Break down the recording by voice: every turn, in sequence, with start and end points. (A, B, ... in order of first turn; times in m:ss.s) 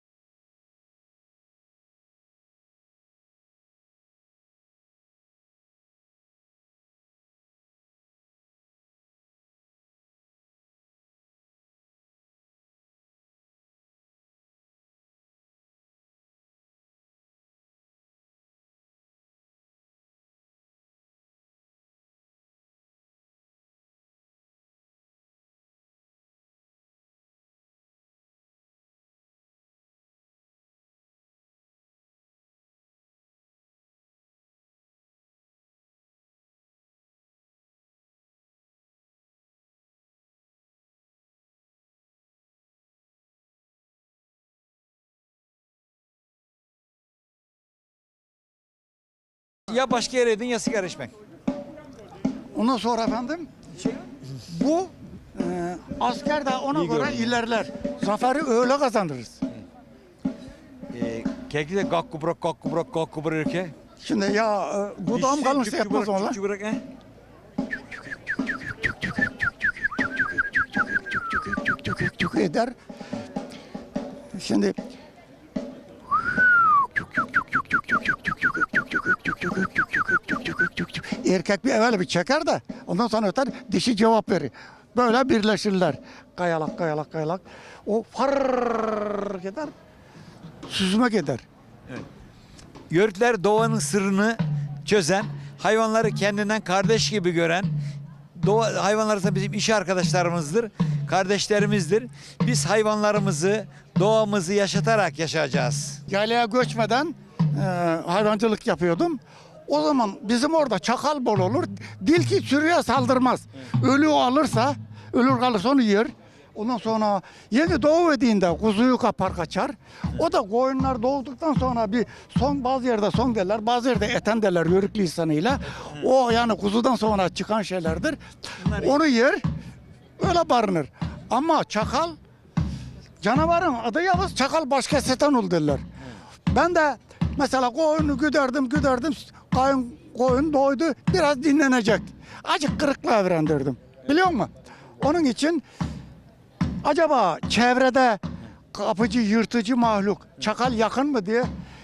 0:49.7-0:51.1 A
0:52.5-0:53.5 B
0:54.5-0:59.4 B
0:56.7-0:57.4 A
1:00.9-1:03.8 A
1:04.0-1:06.4 B
1:05.1-1:06.8 A
1:11.6-1:12.7 B
1:14.3-1:14.8 B
1:16.6-1:16.8 B
1:17.7-1:29.7 B
1:30.7-1:31.4 B
1:32.9-1:37.7 A
1:38.4-1:46.0 A
1:46.1-2:08.2 B
2:05.7-2:06.1 A
2:08.6-2:09.0 A
2:08.7-2:09.4 B
2:10.2-2:12.2 B
2:13.2-2:15.8 B
2:16.5-2:25.6 B
2:26.8-2:28.2 B
2:28.7-2:31.5 B